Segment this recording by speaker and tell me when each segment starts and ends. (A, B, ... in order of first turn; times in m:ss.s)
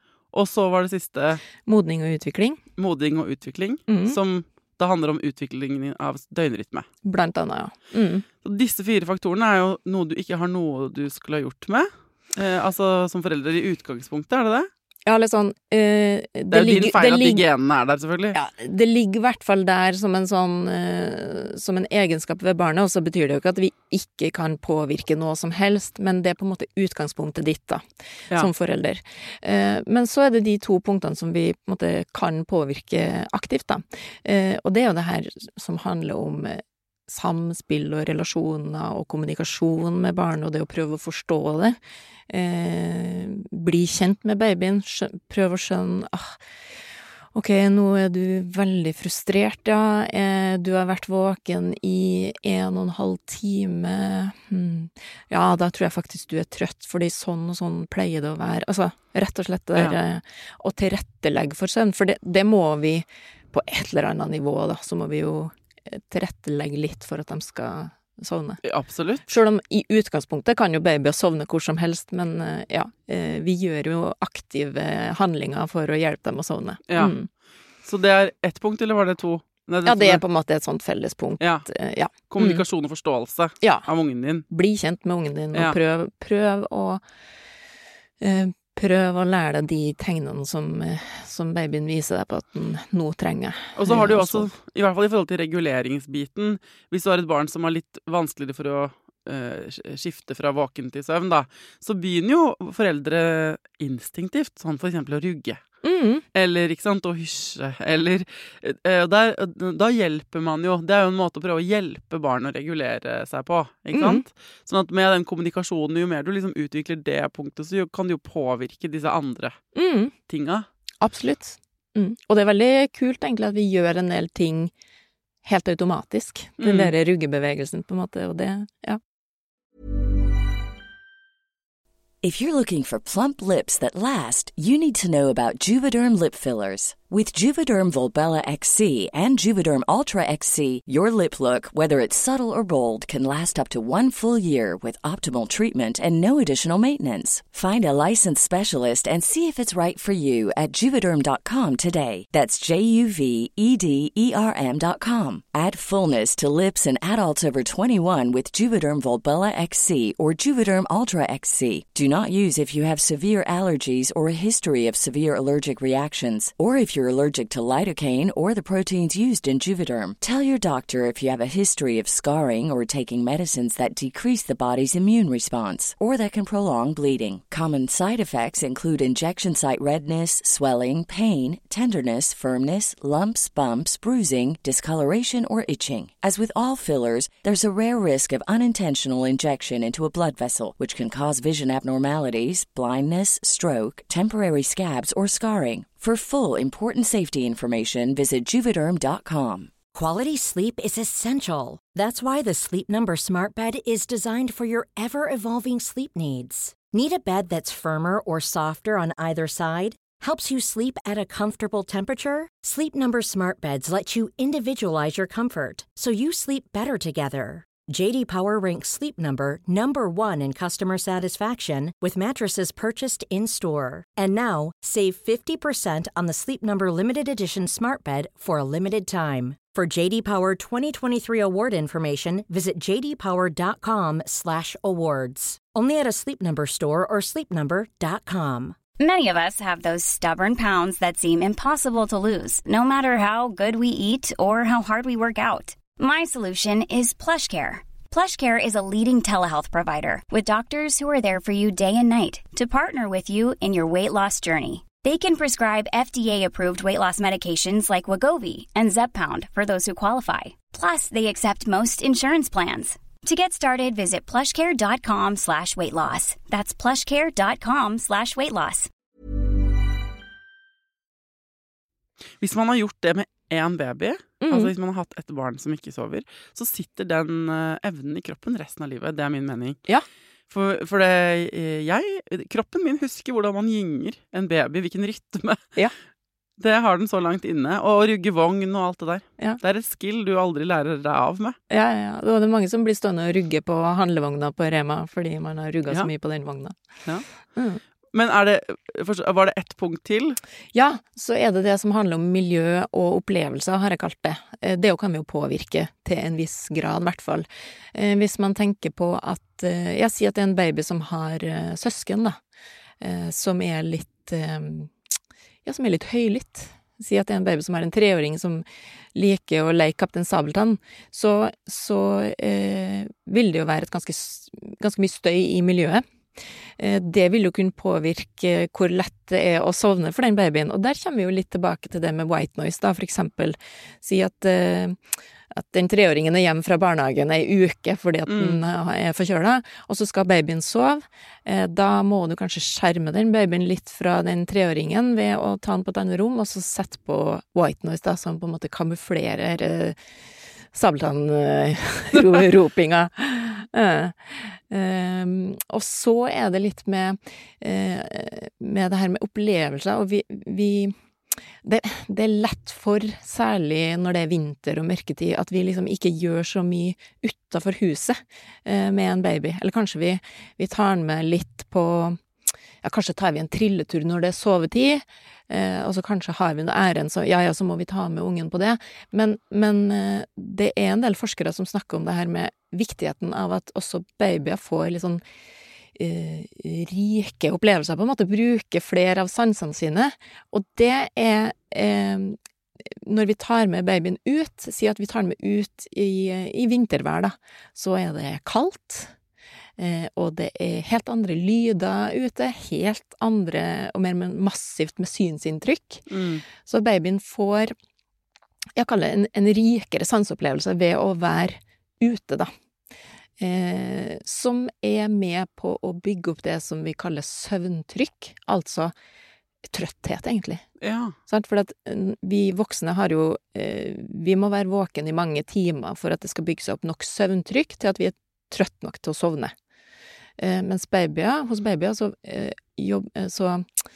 0:00.3-0:01.4 A
0:01.6-0:02.6 B
0:02.8-0:06.9 A
0:03.9-0:04.2 B
0:07.0-0:08.2 B
0:08.4-0:14.7 A
0:15.0-0:17.4 B
0:16.5-0:18.4 A
0:18.3-0:46.4 B
0:47.3-1:08.6 B
1:08.6-1:09.3 A
1:09.3-1:17.3 B
1:16.9-1:17.2 A
1:17.8-1:20.2 A
1:19.8-1:22.6 B
1:21.4-1:21.7 A
1:22.3-1:24.4 A
1:23.6-1:23.9 B
1:24.5-1:27.0 B
1:28.2-1:34.5 B
1:33.8-1:45.6 A
1:45.8-1:46.2 B
1:46.3-1:59.6 A
1:53.9-1:54.2 B
1:59.7-2:00.1 B
2:00.3-2:00.6 A
2:01.0-2:04.7 B
2:05.4-2:09.0 B
2:06.6-2:06.9 A
2:12.2-3:19.8 C
3:19.9-3:58.8 D
3:59.0-4:28.9 E
4:32.4-4:39.8 A
4:34.4-4:34.7 B
4:40.5-4:45.6 A
4:46.6-4:51.6 A
4:51.7-4:56.7 B
4:57.6-4:57.8 B
4:58.1-5:00.4 A
5:00.7-5:12.4 B
5:13.0-5:14.9 B
5:15.6-5:26.0 B
5:26.8-5:35.0 B
5:35.5-5:50.0 B
5:38.3-5:38.6 A
5:50.7-6:00.9 B
6:01.6-6:12.2 B
6:12.8-6:25.2 B
6:26.0-6:39.1 B
6:39.8-6:47.7 B
6:46.1-6:46.4 A
6:48.8-6:52.5 B
6:53.4-6:58.9 B
6:59.7-7:00.6 B
7:00.8-7:01.2 A
7:01.3-7:09.5 B
7:10.4-7:13.7 B